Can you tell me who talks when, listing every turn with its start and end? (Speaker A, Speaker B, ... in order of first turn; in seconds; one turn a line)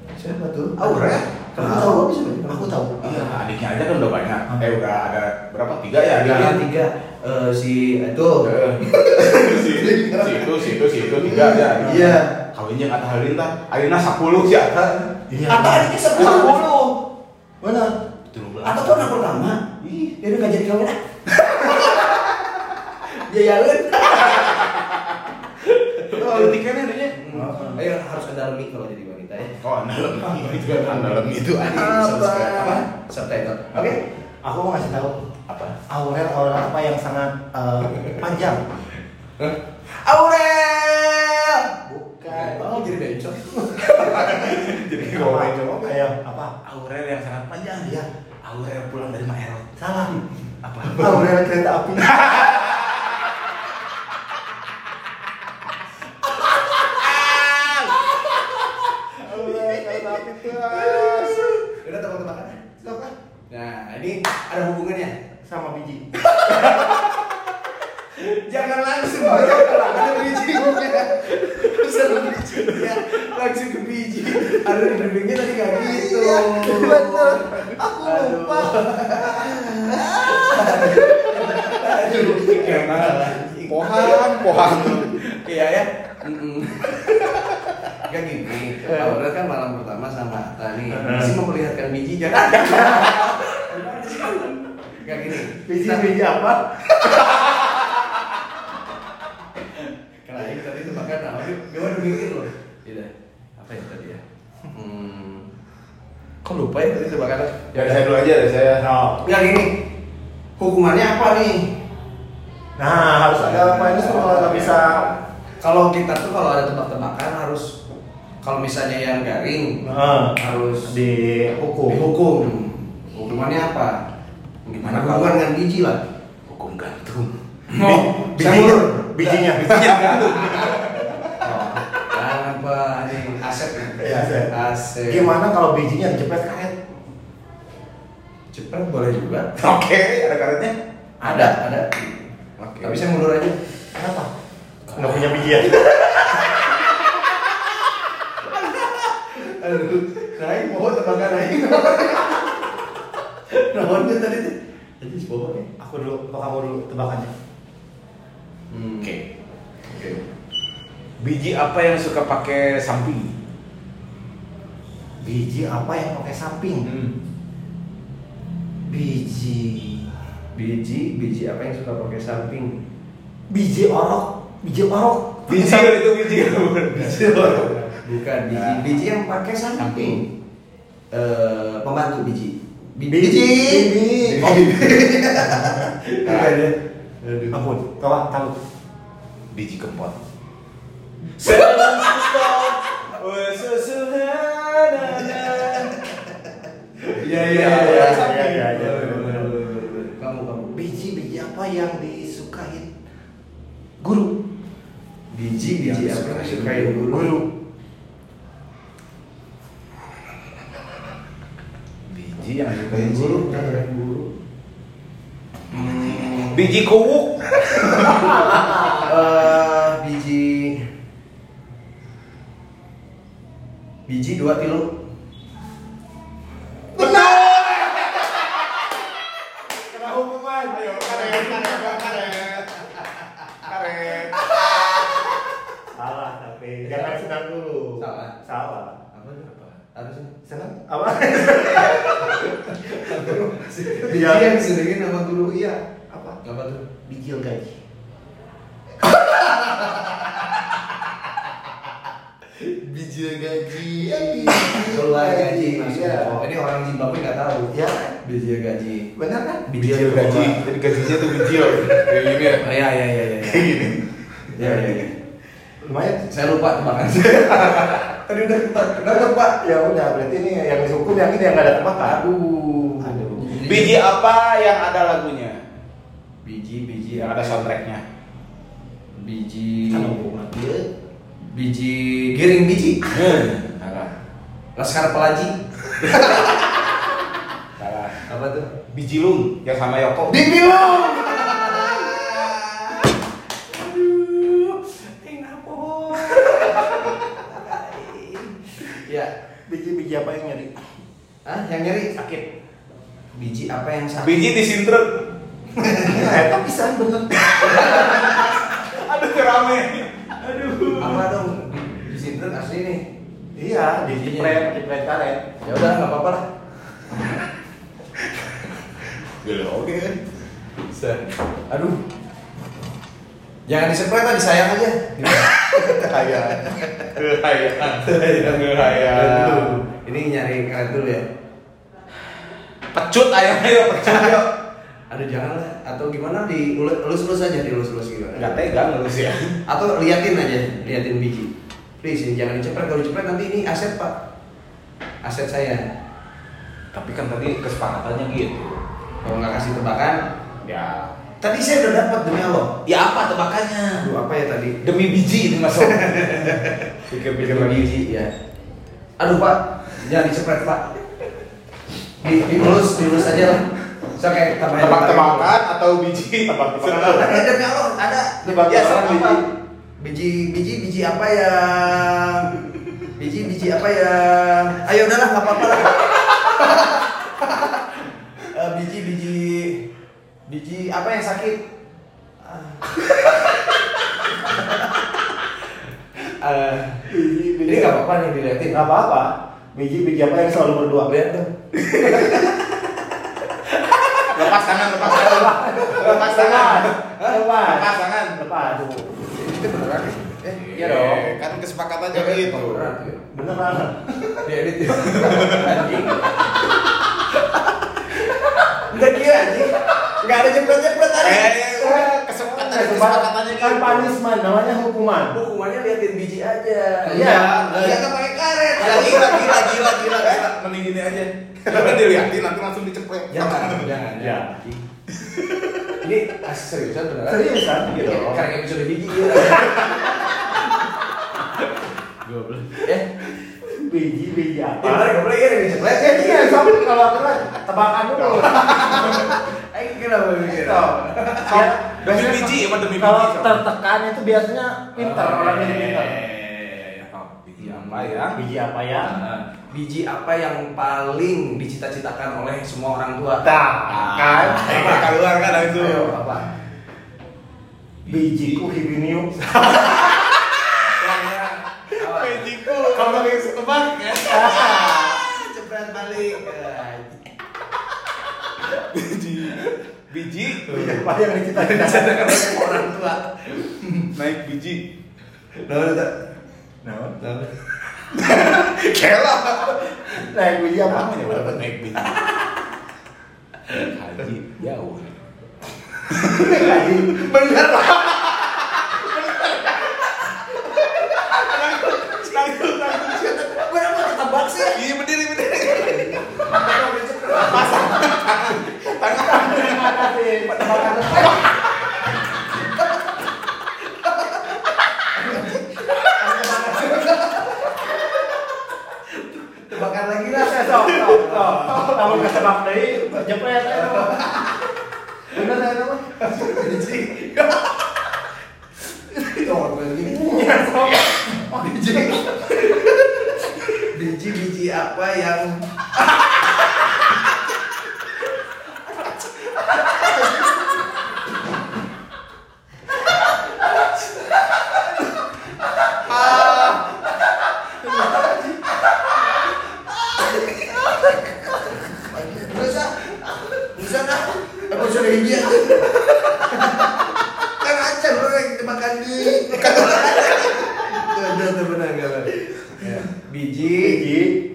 Speaker A: 0.2-2.8
Speaker B: 0.9-1.2
Speaker C: 1.0-3.4
Speaker B: 3.0-6.6
Speaker A: 6.2-12.3
Speaker B: 8.4-15.1
Speaker C: 11.8-12.1
Speaker C: 15.3-16.6
Speaker A: 15.5-16.9
Speaker B: 16.2-16.7
Speaker C: 17.6-18.0
Speaker B: 18.3-19.2
Speaker A: 18.6-21.0
Speaker B: 21.4-22.1
Speaker A: 21.6-22.2
Speaker A: 23.1-24.8
Speaker B: 24.2-24.8
Speaker A: 25.6-26.6
Speaker B: 26.1-27.2
Speaker A: 27.1-29.6
Speaker C: 27.3-27.8
Speaker B: 29.6-32.8
Speaker A: 30.2-34.0
Speaker C: 34.4-35.2
Speaker B: 35.5-35.8
Speaker C: 35.9-38.6
Speaker A: 37.9-38.2
Speaker A: 39.4-41.7
Speaker C: 41.9-46.5
Speaker A: 42.3-44.6
Speaker B: 43.9-45.8
Speaker B: 46.6-49.8
Speaker C: 49.8-50.2
Speaker B: 50.7-51.2
Speaker C: 50.9-52.5
Speaker B: 52.0-53.4
Speaker B: 56.4-58.3
Speaker C: 59.2-61.6
Speaker B: 59.2-61.5
Speaker A: 61.2-62.6
Speaker C: 62.8-63.1
Speaker A: 63.5-65.2
Speaker C: 65.5-66.1
Speaker A: 66.3-67.1
Speaker A: 68.1-79.7
Speaker C: 69.2-70.9
Speaker C: 75.8-82.8
Speaker A: 80.2-96.2
Speaker B: 82.5-85.2
Speaker C: 88.9-89.2
Speaker C: 90.9-91.4
Speaker C: 92.6-93.2
Speaker C: 95.7-97.4
Speaker A: 100.2-105.5
Speaker A: 106.4-108.0
Speaker B: 107.7-108.8
Speaker C: 108.8-109.2
Speaker A: 109.2-109.8
Speaker A: 110.6-111.7
Speaker C: 112.8-115.0
Speaker A: 113.4-117.7
Speaker A: 118.4-120.9
Speaker C: 119.8-122.0
Speaker A: 121.9-124.0
Speaker A: 124.7-126.0
Speaker B: 124.8-125.5
Speaker B: 126.5-127.3
Speaker A: 127.7-130.9
Speaker C: 127.8-129.8
Speaker B: 129.6-131.5
Speaker A: 131.4-135.4
Speaker C: 134.0-134.5
Speaker C: 135.1-136.8
Speaker A: 138.5-139.6
Speaker B: 139.6-140.8
Speaker A: 141.2-143.6
Speaker B: 142.6-143.0
Speaker C: 143.9-144.3
Speaker B: 144.9-145.7
Speaker C: 144.9-145.8
Speaker A: 145.7-146.5
Speaker A: 149.2-152.6
Speaker A: 153.5-155.7
Speaker C: 155.8-157.3
Speaker A: 158.7-159.2
Speaker A: 159.9-160.2
Speaker B: 161.2-163.3
Speaker C: 165.2-166.9
Speaker B: 166.8-167.1
Speaker C: 168.9-170.1
Speaker A: 170.5-172.8
Speaker C: 173.5-175.9
Speaker B: 175.5-177.7
Speaker A: 176.9-180.3
Speaker B: 178.5-178.8
Speaker B: 179.8-180.2
Speaker A: 181.1-187.6
Speaker C: 183.1-184.6
Speaker B: 184.4-185.7
Speaker B: 186.3-186.5
Speaker C: 187.5-188.6
Speaker B: 189.5-190.2
Speaker B: 191.4-195.9
Speaker A: 191.4-192.6
Speaker A: 195.1-195.9
Speaker A: 197.0-200.8
Speaker B: 197.4-198.5
Speaker C: 197.4-199.5
Speaker C: 200.8-202.9
Speaker C: 204.0-204.4
Speaker A: 205.3-207.4
Speaker B: 205.8-206.9
Speaker C: 206.7-207.5
Speaker B: 212.1-213.7
Speaker A: 212.9-214.3
Speaker A: 215.7-216.7
Speaker B: 215.9-218.2
Speaker A: 217.8-218.3
Speaker C: 217.9-219.1
Speaker A: 219.0-220.8
Speaker A: 224.1-224.9
Speaker C: 226.9-228.4
Speaker B: 227.0-228.5
Speaker C: 229.7-232.4
Speaker B: 230.7-233.0
Speaker B: 233.5-235.2
Speaker C: 235.9-239.0
Speaker A: 238.0-238.3
Speaker A: 239.1-240.3
Speaker C: 240.4-244.6
Speaker A: 241.6-245.6
Speaker C: 245.5-246.4
Speaker A: 246.4-246.8
Speaker C: 247.1-247.8
Speaker C: 249.0-249.5
Speaker A: 249.6-250.2
Speaker A: 252.6-259.1
Speaker C: 253.2-256.4
Speaker C: 257.7-258.1
Speaker C: 259.2-259.7
Speaker A: 259.7-260.6
Speaker B: 259.8-262.7
Speaker A: 262.3-263.9
Speaker B: 263.4-264.9
Speaker A: 264.5-265.1
Speaker C: 265.8-266.2
Speaker A: 266.3-269.6
Speaker C: 269.6-272.2
Speaker A: 272.0-274.0
Speaker C: 273.0-273.3
Speaker B: 273.6-275.6
Speaker A: 276.4-277.7
Speaker B: 277.2-278.0
Speaker A: 279.1-280.1
Speaker C: 279.9-280.9
Speaker A: 281.5-284.1
Speaker B: 283.1-283.9
Speaker A: 284.8-286.8
Speaker B: 286.0-286.5
Speaker B: 287.8-288.2
Speaker A: 288.2-288.7
Speaker B: 288.9-291.0
Speaker A: 290.3-299.3
Speaker C: 299.7-300.7
Speaker A: 301.5-302.5
Speaker A: 303.3-304.5
Speaker B: 304.2-305.2
Speaker A: 305.8-306.4
Speaker C: 306.1-308.0
Speaker B: 307.3-311.3
Speaker A: 307.6-308.5
Speaker A: 310.6-313.1
Speaker C: 313.6-315.4
Speaker A: 314.1-314.6
Speaker A: 315.6-316.4
Speaker B: 319.4-320.2
Speaker A: 320.9-322.0
Speaker A: 323.7-327.1
Speaker B: 325.3-329.8
Speaker A: 327.8-331.3
Speaker B: 332.9-334.5
Speaker A: 334.0-334.5
Speaker A: 335.1-338.6
Speaker B: 338.4-339.5
Speaker A: 339.7-344.1
Speaker A: 345.2-345.8
Speaker B: 346.9-348.8
Speaker A: 349.2-350.2
Speaker B: 350.6-351.1
Speaker A: 351.4-352.8
Speaker B: 352.9-354.1
Speaker A: 353.9-354.8
Speaker B: 354.8-357.9
Speaker A: 355.8-358.3
Speaker A: 359.2-361.0
Speaker A: 362.2-365.5
Speaker B: 364.8-367.5
Speaker A: 366.9-369.5
Speaker C: 366.9-367.2
Speaker C: 368.4-369.4
Speaker B: 368.8-369.2
Speaker A: 370.0-372.6
Speaker A: 373.2-379.8
Speaker A: 380.5-381.6
Speaker A: 382.4-383.5
Speaker A: 384.1-385.1
Speaker A: 386.2-387.1
Speaker C: 387.1-388.0
Speaker A: 387.6-388.8
Speaker C: 388.7-391.1
Speaker A: 391.1-392.7
Speaker B: 392.0-392.4
Speaker A: 393.6-394.6
Speaker B: 394.3-396.9
Speaker C: 394.9-399.1
Speaker A: 396.8-397.4
Speaker B: 397.6-398.4
Speaker A: 398.6-401.3
Speaker B: 400.5-402.9
Speaker A: 402.1-403.2
Speaker C: 403.3-404.4
Speaker A: 404.4-411.6
Speaker B: 405.1-405.8
Speaker B: 411.2-414.2
Speaker C: 411.8-415.4
Speaker A: 415.3-420.5
Speaker C: 417.1-418.1
Speaker B: 417.2-417.9
Speaker B: 418.8-424.0
Speaker A: 421.6-422.0
Speaker A: 423.3-424.8
Speaker C: 424.2-424.6
Speaker B: 425.1-426.0
Speaker A: 426.0-431.8
Speaker C: 427.3-427.9
Speaker B: 427.9-428.5
Speaker B: 429.5-430.1
Speaker B: 432.3-432.7
Speaker A: 432.4-433.2
Speaker C: 433.7-435.1
Speaker A: 434.8-436.8
Speaker C: 435.9-439.2
Speaker B: 438.2-439.4
Speaker A: 438.5-441.6
Speaker C: 440.5-446.2
Speaker B: 441.5-443.6
Speaker A: 445.0-448.3
Speaker B: 445.3-448.4
Speaker C: 448.3-449.2
Speaker A: 449.0-453.6
Speaker C: 453.5-455.1
Speaker B: 453.5-456.2
Speaker A: 454.5-456.5
Speaker B: 458.1-458.7
Speaker C: 458.1-459.3
Speaker A: 459.6-460.0
Speaker B: 459.7-465.2
Speaker A: 461.0-467.3
Speaker C: 462.9-463.4
Speaker C: 464.2-465.2
Speaker B: 468.8-470.9
Speaker A: 470.7-474.1
Speaker C: 470.7-472.8
Speaker B: 474.1-474.8
Speaker A: 475.5-476.2
Speaker C: 476.8-477.2
Speaker A: 477.2-477.5
Speaker B: 478.1-480.2
Speaker C: 480.2-481.6
Speaker B: 480.8-482.4
Speaker B: 483.7-485.2
Speaker B: 486.0-487.3
Speaker C: 486.3-487.2
Speaker A: 487.1-488.5
Speaker B: 488.1-490.1
Speaker A: 489.5-489.9
Speaker A: 490.6-494.9
Speaker B: 491.1-493.6
Speaker B: 494.6-496.4
Speaker A: 495.6-498.1
Speaker C: 496.4-498.1
Speaker B: 497.3-501.5
Speaker C: 499.0-501.5
Speaker A: 500.7-501.4
Speaker A: 503.9-508.4
Speaker C: 506.2-507.2
Speaker A: 508.9-512.5
Speaker C: 510.3-514.4
Speaker A: 513.7-514.7
Speaker C: 515.3-516.2
Speaker A: 516.2-517.9
Speaker A: 519.1-526.9
Speaker C: 520.1-522.2
Speaker A: 528.9-530.6
Speaker C: 530.0-530.6
Speaker A: 533.7-535.0
Speaker A: 535.8-538.9
Speaker B: 536.1-536.8
Speaker C: 538.1-538.4
Speaker A: 540.2-541.2
Speaker C: 541.7-542.3
Speaker A: 541.8-554.0
Speaker B: 549.6-550.5
Speaker C: 553.7-554.4